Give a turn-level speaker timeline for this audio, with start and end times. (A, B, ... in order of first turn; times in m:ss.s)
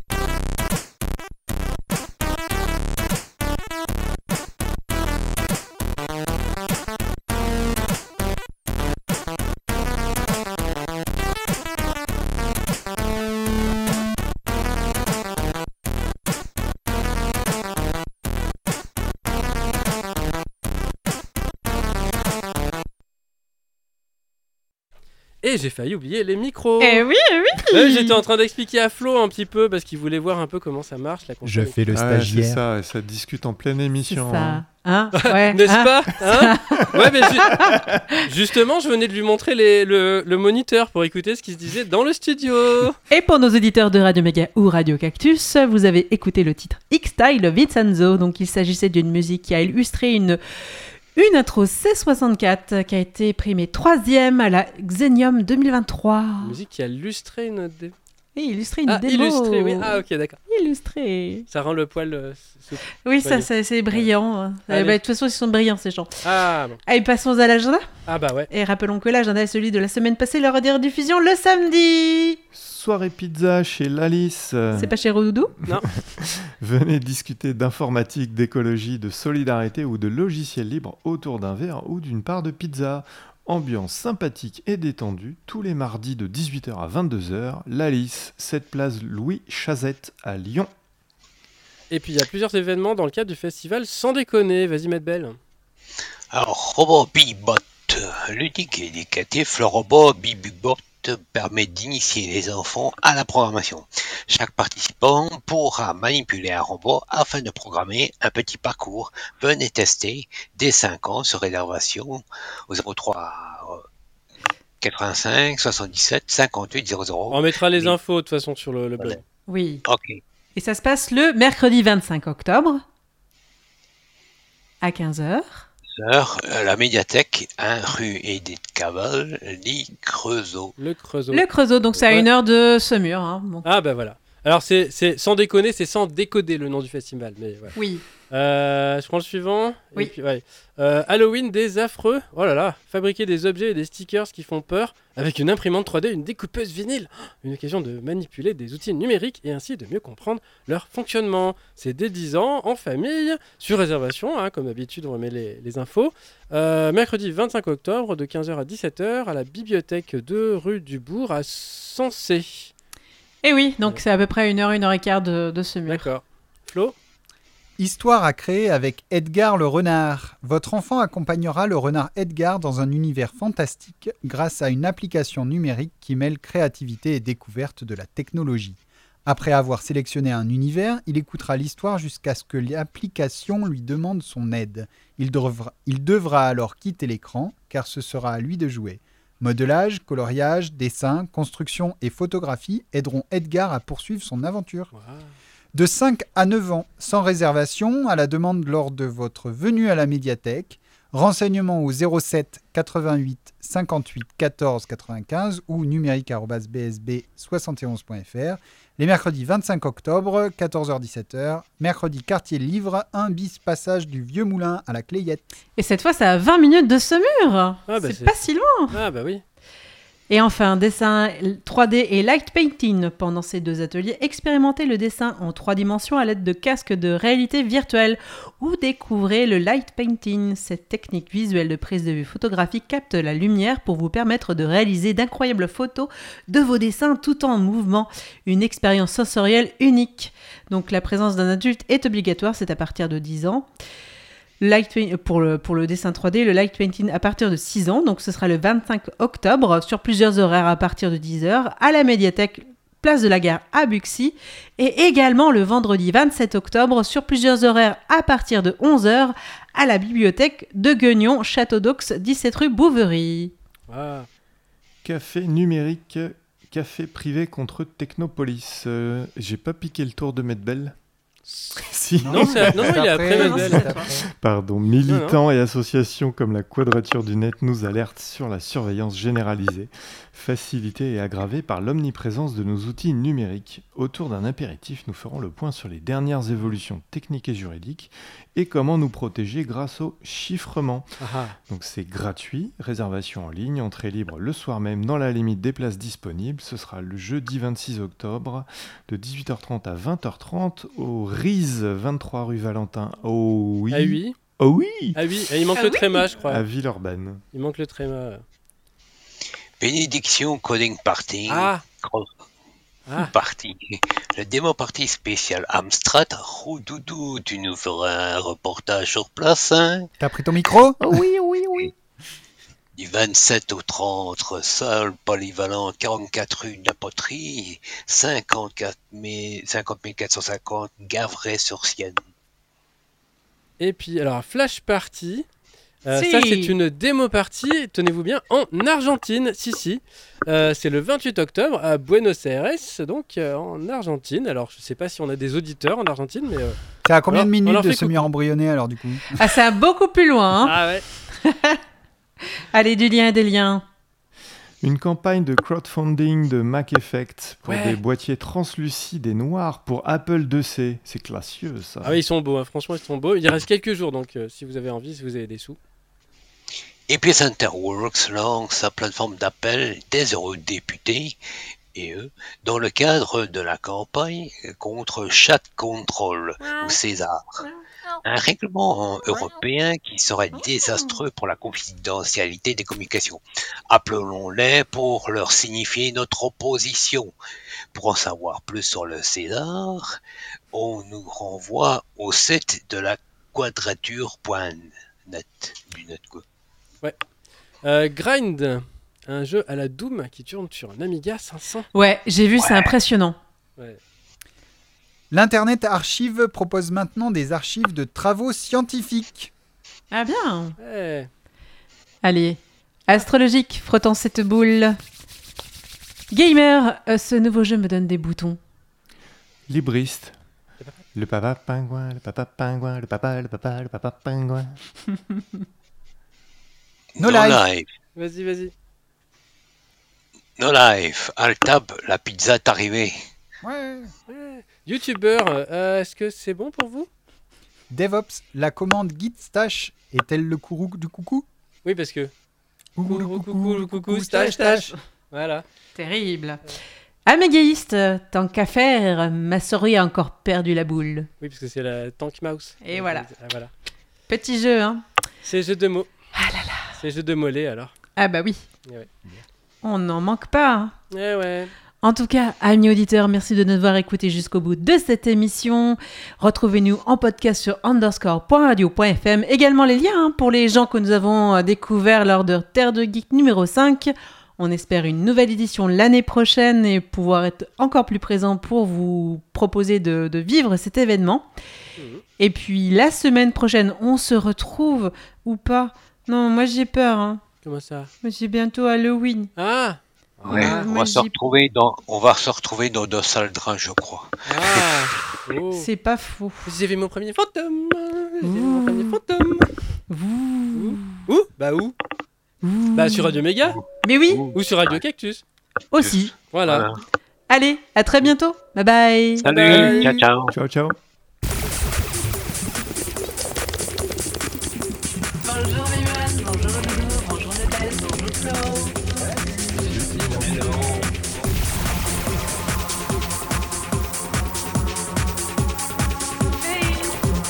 0:25.4-0:27.1 A
0:26.8-0:28.2 B
0:27.7-0:31.8 A
0:31.4-0:32.6 C
0:31.9-0:34.7 D
0:34.1-0:36.9 B
0:35.2-0:37.7 A
0:38.2-0:43.0 A
0:43.1-0:50.4 B
0:51.2-0:56.6 B
0:56.4-0:57.9 A
0:58.4-1:01.5 B
0:58.9-1:00.4 A
1:01.5-1:04.1 A
1:03.0-1:07.9 B
1:04.7-1:05.0 A
1:06.2-1:06.8 A
1:08.1-1:08.5 A
1:08.5-1:12.4 B
1:12.5-1:14.9 D
1:14.7-1:15.5 B
1:15.7-1:30.7 D
1:31.9-1:35.4 A
1:36.3-1:53.8 E
1:54.8-1:58.0 E
1:57.3-1:59.2 A
1:59.5-1:59.8 B
1:59.8-2:00.2 E
2:00.6-2:02.8 B
2:04.8-2:05.7 B
2:06.0-2:10.8 E
2:10.8-2:12.3 A
2:11.3-2:13.7 B
2:13.6-2:17.8 A
2:17.8-2:18.0 B
2:18.3-2:42.7 A
2:43.4-2:46.1 B
2:45.9-2:47.0 A
2:47.8-3:14.9 C
3:14.9-3:15.3 A
3:15.7-3:35.4 C
3:35.8-3:39.0 B
3:37.9-3:39.4 A
3:40.3-4:03.7 B
4:04.6-4:23.5 B
4:23.9-4:24.3 A
4:25.0-4:31.0 D
4:31.8-5:05.2 D
4:32.0-4:34.1 C
4:32.3-4:34.1 A
4:33.4-4:34.0 B
4:35.1-4:35.4 A
4:51.2-4:51.6 A
5:03.9-5:04.4 A
5:05.2-5:06.7 A
5:05.8-5:06.4 B
5:06.4-5:07.4 D
5:07.5-5:08.4 A
5:09.8-5:12.3 E
5:11.5-5:11.8 A
5:13.1-5:20.1 E
5:20.2-5:21.2 C
5:21.0-5:21.9 D
5:23.0-5:32.2 E
5:33.8-5:35.5 A
5:36.0-5:48.3 A
5:36.1-5:36.8 B
5:47.0-5:49.4 C
5:49.4-5:50.8 B
5:50.6-5:51.1 A
5:51.4-5:51.8 B
5:52.7-5:53.8 B
5:54.8-6:02.2 D
5:57.7-5:58.0 A
6:02.0-6:05.8 A
6:07.1-6:11.4 E
6:12.0-6:17.6 E
6:16.6-6:16.9 B
6:18.2-6:27.3 E
6:20.6-6:21.1 B
6:27.9-6:30.2 E
6:30.7-6:36.4 E
6:37.8-6:41.9 A
6:41.9-6:43.4 B
6:45.3-6:49.5 C
6:50.1-6:50.8 B
6:50.8-6:51.3 A
6:52.2-6:55.0 B
6:56.3-6:58.6 B
6:59.7-7:00.4 D
7:01.1-7:04.8 D
7:07.2-7:07.9 E
7:07.2-7:07.6 C
7:08.2-7:08.7 A
7:10.6-7:13.2 E
7:13.6-7:14.1 C
7:14.3-7:17.1 A
7:17.9-7:21.5 C
7:21.8-7:22.3 A
7:23.0-7:24.6 C
7:23.0-7:25.6 A
7:26.0-7:26.6 B
7:27.3-7:31.3 B
7:31.4-7:33.7 A
7:32.8-7:33.3 B
7:34.3-7:35.0 B
7:35.4-7:36.1 A
7:36.4-7:37.0 B
7:36.8-7:37.9 A
7:38.2-7:38.7 B
7:38.8-7:39.4 A
7:39.8-7:41.0 B
7:41.1-7:41.7 A
7:42.0-8:01.5 B
8:02.0-8:02.2 A
8:02.4-8:07.4 B
8:07.6-8:08.1 A
8:08.2-8:09.5 B
8:09.6-8:10.9 A
8:10.5-8:15.1 E
8:10.5-8:11.3 B
8:14.5-8:15.9 A
8:15.7-8:16.7 B
8:16.6-8:19.7 A
8:18.4-8:19.0 B
8:20.1-8:21.1 B
8:20.7-8:22.0 A
8:22.6-8:23.4 B
8:22.9-8:23.8 A
8:23.7-8:25.0 E
8:24.0-8:24.5 B
8:24.5-8:25.4 A
8:25.9-8:26.3 B
8:26.0-8:27.0 E
8:26.5-8:26.9 A
8:27.5-8:30.1 B
8:29.4-8:30.5 E
8:29.5-8:30.3 A
8:30.5-8:31.0 D
8:35.5-8:39.1 B
8:39.8-8:40.6 D
8:39.9-8:40.8 A
8:46.6-8:47.2 B